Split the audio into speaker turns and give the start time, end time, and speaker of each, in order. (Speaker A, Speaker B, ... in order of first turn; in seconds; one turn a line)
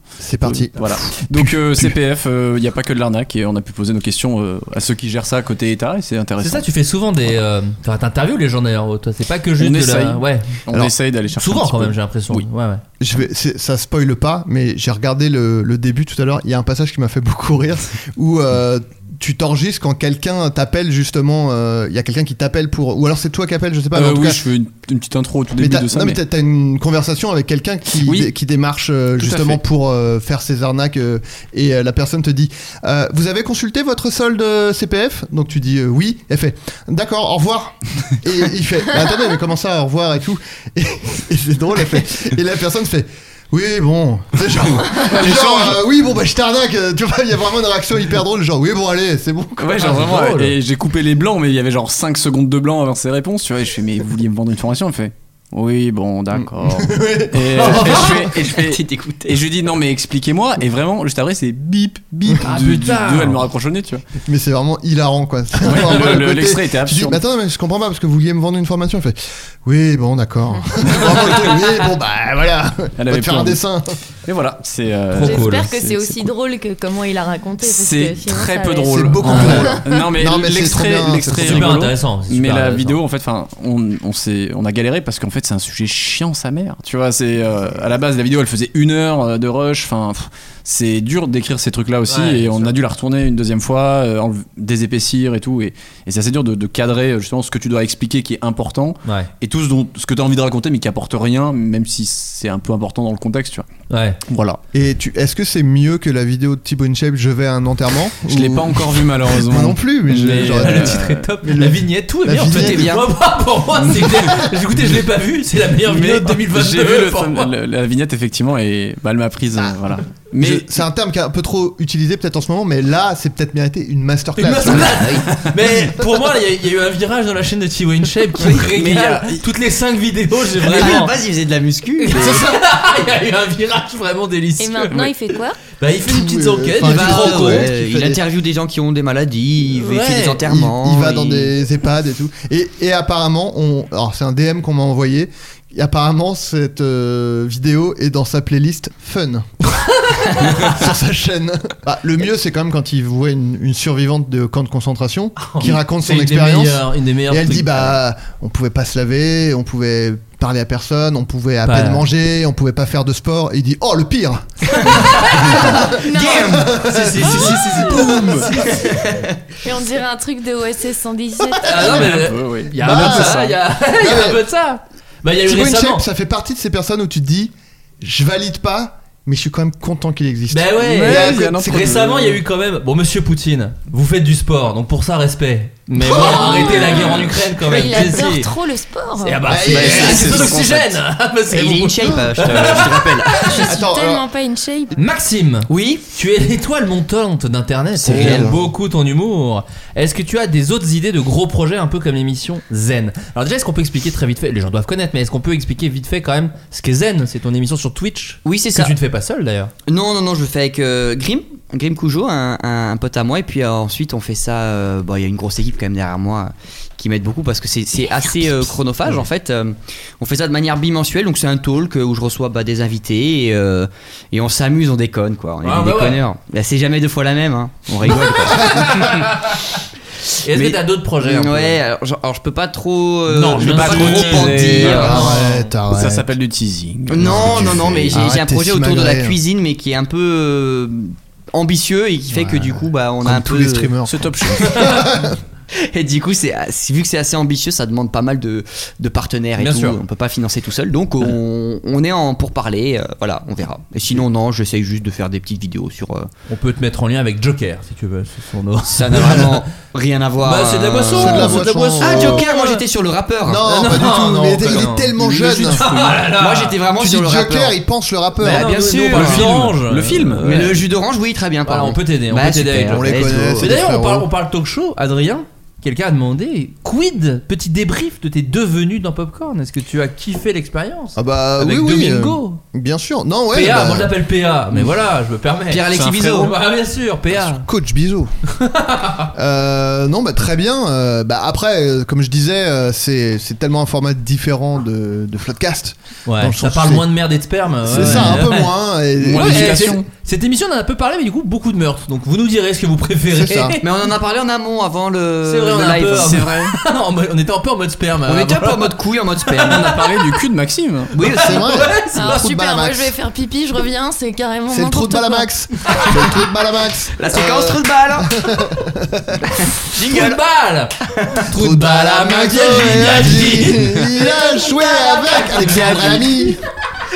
Speaker A: 0.2-1.9
Speaker B: 0.4-6.7
Speaker C: 6.4-10.6
Speaker B: 9.6-12.5
Speaker C: 11.3-12.8
Speaker A: 13.0-24.4
Speaker B: 23.9-26.2
Speaker A: 25.6-49.9
Speaker B: 28.0-28.3
Speaker B: 29.2-29.6
Speaker B: 44.8-45.8
Speaker B: 49.6-64.0
Speaker C: 49.8-50.5
Speaker A: 56.7-58.0
Speaker C: 57.7-58.2
Speaker D: 57.7-59.5
Speaker C: 62.4-63.4
Speaker A: 64.3-73.8
Speaker B: 65.6-67.2
Speaker B: 73.0-73.6
Speaker B: 74.2-76.3
Speaker E: 75.2-80.1
Speaker C: 75.2-75.7
Speaker B: 77.6-103.7
Speaker A: 78.8-81.8
Speaker C: 79.2-79.7
Speaker C: 81.3-83.0
Speaker C: 92.1-92.8
Speaker C: 103.9-104.2
Speaker B: 104.3-104.6
Speaker A: 104.7-112.9
Speaker B: 108.2-111.3
Speaker C: 110.6-117.5
Speaker D: 112.3-113.0
Speaker B: 115.8-120.7
Speaker A: 120.4-125.2
Speaker C: 124.4-131.2
Speaker B: 128.5-129.4
Speaker B: 130.6-131.1
Speaker D: 130.7-132.4
Speaker C: 132.0-135.1
Speaker A: 132.2-132.6
Speaker E: 134.6-135.6
Speaker C: 135.8-137.7
Speaker A: 136.0-138.2
Speaker D: 136.8-141.5
Speaker C: 139.8-140.4
Speaker A: 140.4-149.8
Speaker A: 150.4-168.7
Speaker C: 155.4-157.9
Speaker C: 161.7-162.1
Speaker E: 164.8-166.6
Speaker D: 164.9-169.4
Speaker C: 166.9-168.3
Speaker B: 167.7-168.5
Speaker E: 169.6-171.6
Speaker A: 171.7-172.2
Speaker C: 171.7-176.0
Speaker B: 171.8-173.6
Speaker A: 172.8-173.4
Speaker A: 173.9-174.4
Speaker A: 175.4-182.1
Speaker C: 180.5-188.5
Speaker B: 180.8-182.4
Speaker E: 186.1-189.4
Speaker C: 189.2-193.4
Speaker A: 189.5-190.3
Speaker B: 189.6-191.0
Speaker D: 189.7-190.6
Speaker D: 191.5-193.6
Speaker E: 193.4-194.9
Speaker A: 193.6-194.2
Speaker C: 194.9-209.7
Speaker D: 195.7-196.1
Speaker D: 198.0-198.6
Speaker A: 198.0-198.6
Speaker D: 208.4-208.9
Speaker D: 209.9-229.2
Speaker C: 225.6-226.3
Speaker C: 228.1-229.6
Speaker C: 230.4-231.8
Speaker D: 230.5-235.4
Speaker C: 233.3-235.7
Speaker B: 233.4-235.4
Speaker A: 234.9-236.3
Speaker B: 235.9-238.3
Speaker D: 237.1-244.0
Speaker A: 237.2-239.4
Speaker A: 242.3-245.4
Speaker B: 244.0-245.0
Speaker D: 245.8-256.3
Speaker C: 249.6-250.0
Speaker C: 256.5-259.6
Speaker D: 258.9-263.8
Speaker C: 260.4-262.8
Speaker A: 261.1-262.4
Speaker A: 263.4-265.9
Speaker C: 263.7-266.8
Speaker B: 265.2-266.3
Speaker D: 266.4-267.8
Speaker A: 267.0-268.7
Speaker D: 268.4-269.7
Speaker C: 268.4-270.6
Speaker B: 269.1-270.8
Speaker D: 270.4-273.8
Speaker C: 271.6-282.6
Speaker A: 272.9-274.3
Speaker A: 281.2-284.1
Speaker C: 283.5-287.7
Speaker D: 285.7-286.6
Speaker B: 285.9-286.5
Speaker A: 287.4-288.3
Speaker C: 288.6-289.3
Speaker A: 289.3-297.1
Speaker C: 296.3-298.7
Speaker B: 297.9-298.5
Speaker A: 297.9-299.9
Speaker B: 299.2-300.1
Speaker C: 299.3-303.9
Speaker A: 303.3-303.8
Speaker D: 303.8-306.5
Speaker C: 305.5-309.9
Speaker B: 306.1-306.8
Speaker D: 308.3-310.1
Speaker B: 309.6-311.1
Speaker D: 311.1-311.8
Speaker C: 311.2-312.4
Speaker A: 311.2-313.1
Speaker E: 312.1-315.5
Speaker A: 314.7-319.7
Speaker D: 317.2-318.4
Speaker D: 319.5-320.4
Speaker C: 320.0-324.2
Speaker A: 321.5-326.6
Speaker E: 324.3-325.3
Speaker C: 325.5-326.1
Speaker D: 325.6-326.2